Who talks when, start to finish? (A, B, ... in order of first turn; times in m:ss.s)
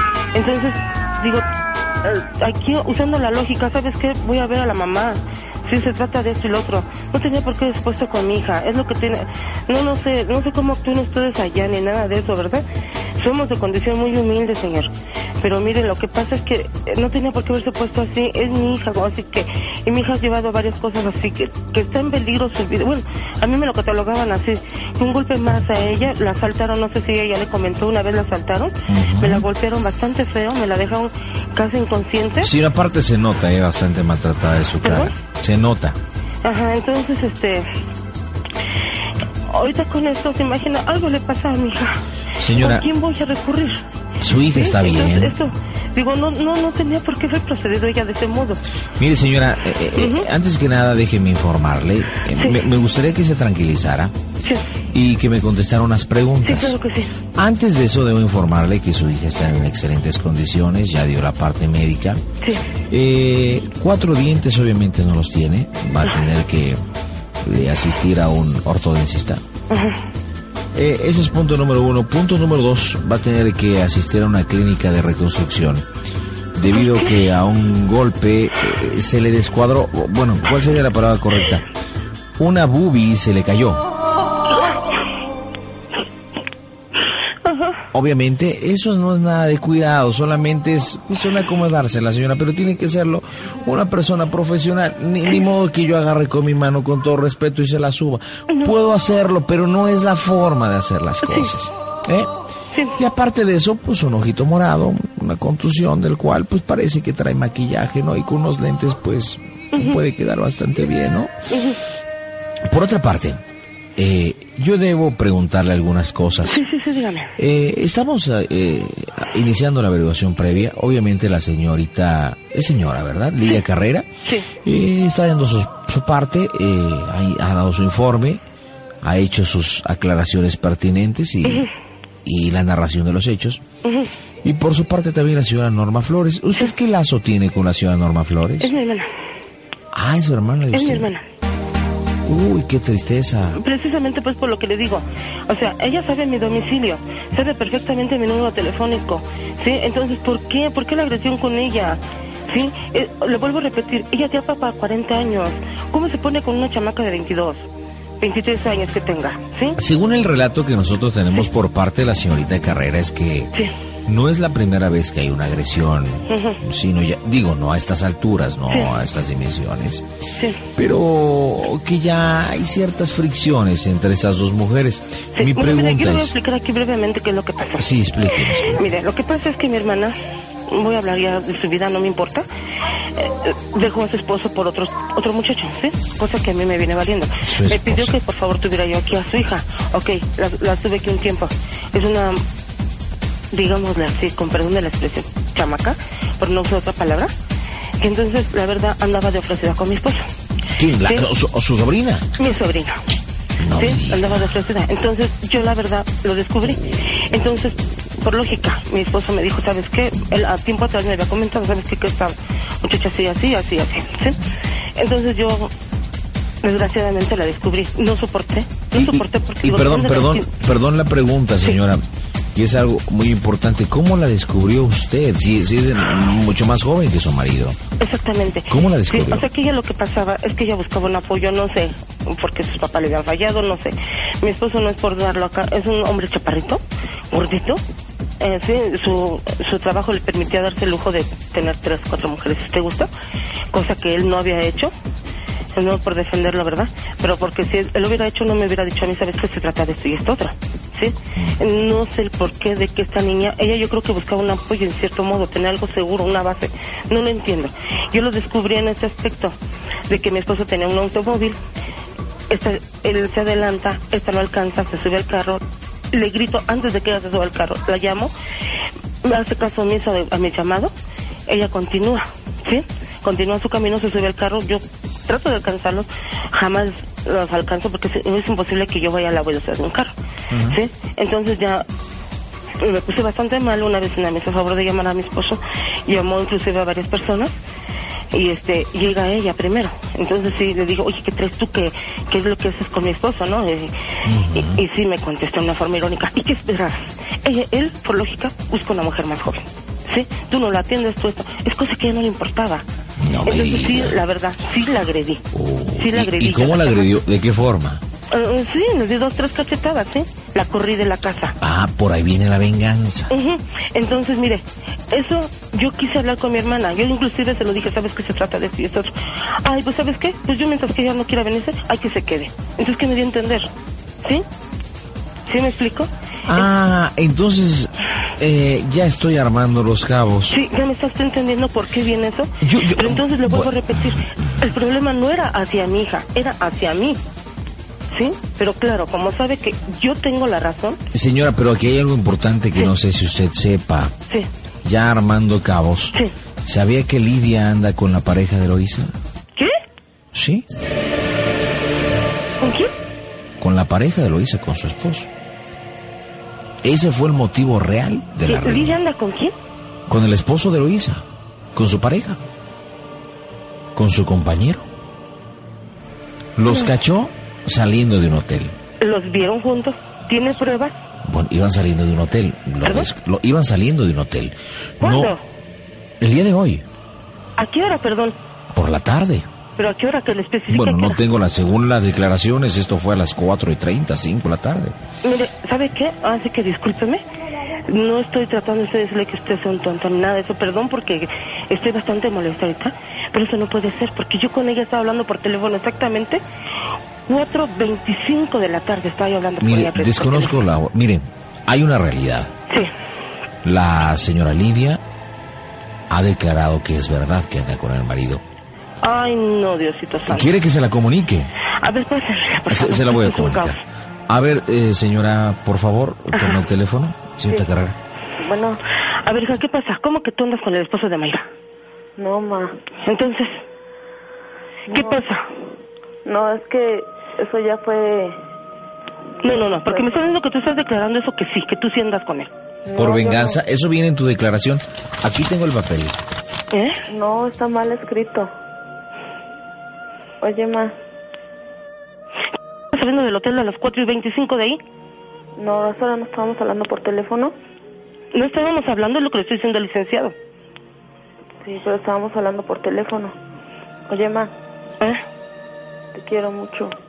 0:00.3-0:01.5 A
0:02.0-0:32.5 A
0:28.9-0:29.5 B
0:32.4-0:36.0 B
0:34.8-0:35.1 A
0:36.4-0:37.7 A
0:39.5-0:42.0 A
0:42.4-0:42.9 B
0:42.5-0:43.8 A
0:44.2-0:45.4 B
0:44.4-0:48.6 A
0:49.0-0:54.1 B
0:50.0-0:50.3 A
0:54.9-0:56.8 B
0:56.4-0:57.2 A
0:57.4-1:02.2 B
1:02.9-1:06.8 B
1:07.4-1:09.4 B
1:09.7-1:10.0 A
1:10.7-1:15.8 B
1:16.6-1:21.7 B
1:22.4-1:23.8 B
1:27.5-1:27.8 A
1:27.9-1:42.3 B
1:42.7-1:43.0 A
1:43.0-1:51.3 B
1:51.5-1:51.8 A
1:52.7-1:53.4 B
1:54.0-1:56.6 B
1:56.5-1:57.3 A
1:57.4-2:04.1 B
2:04.3-2:04.5 A
2:04.6-2:08.4 B
2:09.0-2:11.7 B
2:12.2-2:13.6 B
2:14.4-2:18.7 B
2:18.6-2:19.1 A
2:19.9-2:21.1 B
2:20.7-2:21.2 A
2:22.2-2:23.6 B
2:23.6-2:37.6 A
2:38.2-2:39.8 A
2:39.8-2:43.5 B
2:44.1-2:50.0 B
2:46.3-2:46.6 A
2:50.4-2:50.6 A
2:50.8-2:56.4 B
2:55.4-2:57.9 A
2:57.8-2:58.8 B
2:58.6-3:00.2 A
3:00.7-3:02.4 A
3:03.2-3:12.4 A
3:07.4-3:08.1 B
3:13.5-3:17.3 A
3:18.0-3:20.3 A
3:20.7-3:22.3 B
3:21.0-3:21.3 A
3:22.4-3:23.0 A
3:23.6-3:24.5 B
3:23.7-3:34.4 A
3:35.0-3:35.7 A
3:36.6-3:40.5 A
3:38.9-3:42.0 B
3:42.6-3:47.8 B
3:48.0-3:57.8 A
3:48.7-3:49.4 B
3:58.4-4:03.1 A
4:03.7-4:04.9 A
4:05.7-4:19.6 A
4:20.1-4:21.6 A
4:22.5-4:28.3 A
4:29.2-4:30.9 A
4:31.5-4:40.1 A
4:40.5-4:40.8 B
4:40.7-4:41.8 A
4:42.8-4:47.5 A
4:48.3-4:54.0 A
4:54.2-4:54.8 B
4:54.5-5:02.8 A
5:03.2-5:04.2 B
5:03.4-5:05.4 A
5:05.5-5:08.0 B
5:06.0-5:07.1 A
5:08.3-5:11.6 A
5:11.6-5:13.3 B
5:13.3-5:23.7 A
5:25.5-5:26.6 A
5:26.5-5:30.6 B
5:30.5-5:37.2 A
5:32.6-5:34.3 B
5:38.1-5:41.0 A
5:41.1-5:44.2 B
5:44.8-5:49.1 B
5:50.3-5:50.6 B
5:52.6-5:52.9 A
5:53.6-5:55.3 B
5:56.8-5:59.0 B
5:58.5-5:59.5 A
6:00.1-6:01.2 B
6:01.8-6:02.4 B
6:04.0-6:04.9 B
6:06.6-6:08.8 B
6:09.0-6:11.0 A
6:11.2-6:15.3 B
6:12.8-6:13.1 A
6:15.0-6:15.4 A
6:16.2-6:16.8 B
6:17.6-6:18.4 A
6:18.7-6:19.5 B
6:19.8-6:21.2 A
6:20.7-6:25.0 B
6:25.2-6:27.2 A
6:27.9-6:36.4 A
6:37.3-6:40.6 A
6:39.6-6:42.5 B
6:43.6-6:45.0 B
6:46.1-6:48.4 B
6:49.0-6:50.5 A
6:50.3-6:51.5 B
6:51.8-6:53.8 A
6:52.7-6:53.8 B
6:54.3-6:58.0 B
6:56.4-6:56.6 A
6:58.4-6:58.8 C
6:59.2-7:01.5 A
7:02.2-7:02.7 C
7:03.0-7:03.5 A
7:04.9-7:05.4 A
7:04.9-7:05.2 C
7:06.2-7:08.4 C
7:09.4-7:10.3 C
7:09.4-7:12.5 A
7:12.9-7:13.6 C
7:13.0-7:16.2 B
7:16.7-7:17.0 A
7:17.1-7:18.5 C
7:20.4-7:20.9 C
7:22.9-7:24.8 A
7:25.6-7:27.5 C
7:28.3-7:30.4 A
7:31.6-7:33.3 C
7:34.1-7:34.5 C
7:36.1-7:36.9 C